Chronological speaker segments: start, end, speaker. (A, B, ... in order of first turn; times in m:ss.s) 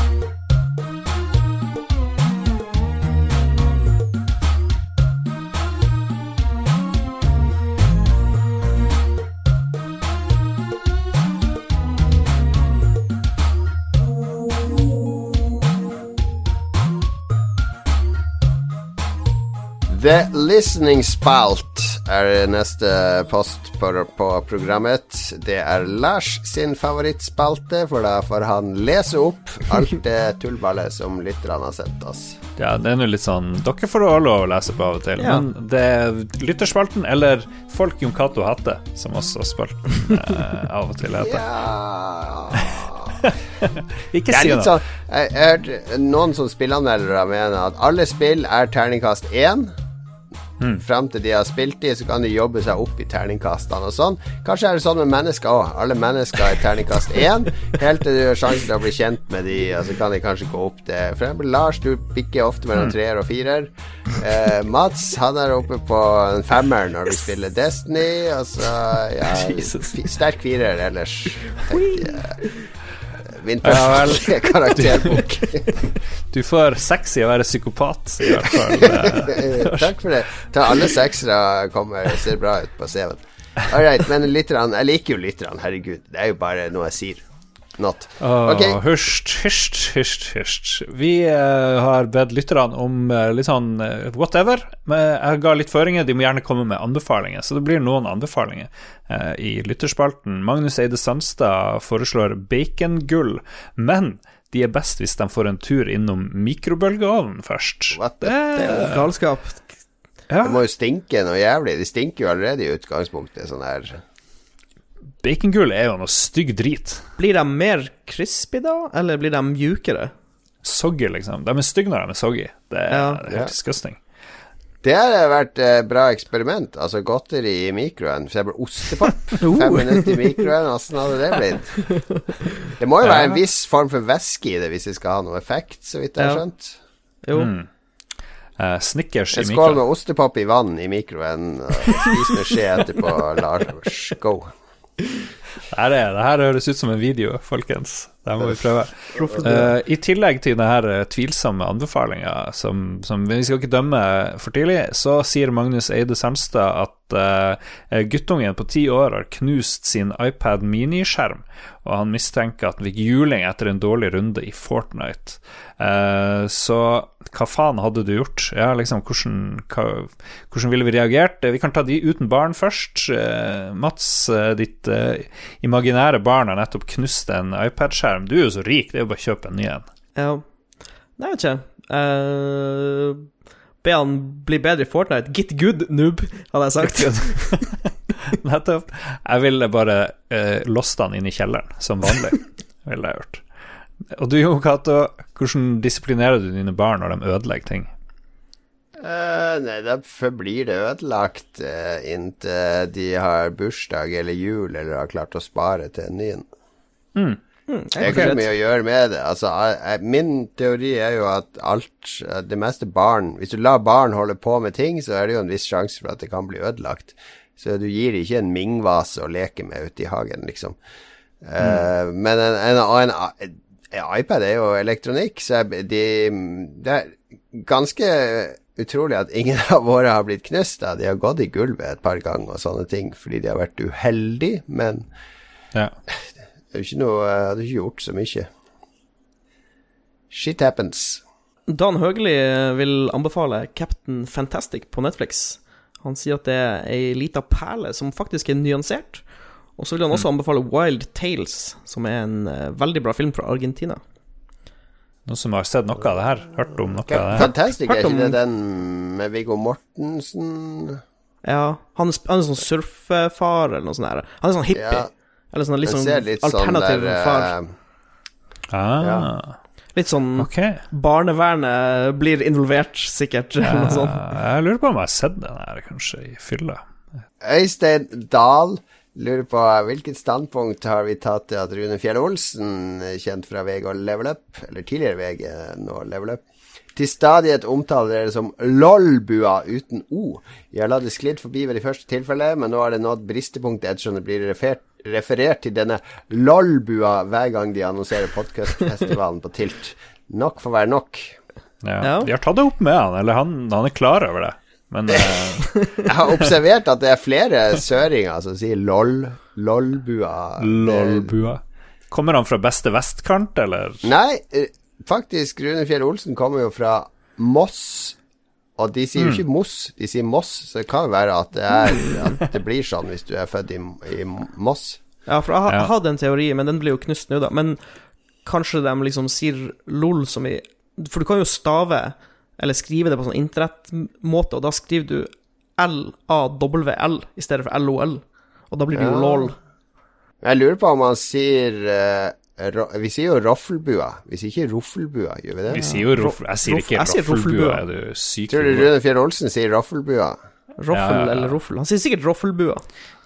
0:19.9-0:32.4 A
0:32.6-0:41.4 B
0:35.2-0:35.4 C
0:41.2-0:43.2 A
0:42.5-0:44.7 B
0:44.3-0:49.7 A
0:50.8-1:12.4 A
1:09.3-1:10.0 B
1:11.7-1:12.4 C
1:13.2-1:15.7 A
1:13.6-1:15.3 B
1:16.3-1:19.9 B
1:18.4-1:27.2 A
1:27.8-1:28.8 A
1:28.2-1:49.0 B
1:47.9-1:48.8 A
1:48.5-1:49.7 C
1:50.3-1:50.6 B
1:50.4-1:54.0 A
1:55.2-1:57.0 B
1:57.2-2:00.1 C
2:00.6-2:04.0 B
2:02.9-2:03.2 C
2:04.8-2:11.8 A
2:09.4-2:10.4 C
2:11.9-2:12.2 C
2:12.8-2:16.8 A
2:13.0-2:13.4 B
2:16.2-2:16.4 C
2:17.2-2:17.5 C
2:17.3-2:17.7 B
2:18.6-2:19.8 B
2:19.3-2:24.5 A
2:25.7-2:59.8 B
2:29.2-2:29.6 A
2:29.4-2:29.7 C
3:00.2-3:00.4 C
3:01.2-3:03.3 C
3:03.8-3:07.5 C
3:06.8-3:13.4 B
3:14.1-3:17.9 B
3:19.0-3:26.4 A
3:27.7-3:28.5 C
3:28.0-3:28.3 B
3:28.0-3:40.8 A
3:41.4-3:55.1 A
3:56.7-3:58.5 A
4:00.3-4:01.2 A
4:01.7-4:09.2 C
4:09.8-4:14.0 C
4:15.3-4:17.5 B
4:17.0-4:21.0 A
4:17.4-4:18.4 C
4:21.4-4:27.5 C
4:24.7-4:25.1 A
4:25.8-4:27.7 A
4:28.7-4:29.6 B
4:29.0-4:29.3 A
4:29.9-4:34.2 C
4:30.4-4:30.8 B
4:33.6-4:36.8 B
4:37.4-4:46.4 A
4:46.9-5:01.4 A
5:01.8-5:06.0 B
5:02.0-5:02.3 C
5:06.0-5:11.3 A
5:10.6-5:14.0 B
5:14.0-5:18.2 A
5:18.8-5:25.0 A
5:19.2-5:19.4 B
5:25.3-5:27.8 C
5:28.4-5:39.5 C
5:38.9-5:39.5 A
5:40.4-5:45.8 A
5:45.7-5:48.9 B
5:45.7-5:47.8 C
5:48.5-5:50.4 A
5:50.8-5:52.8 C
5:50.9-5:51.5 B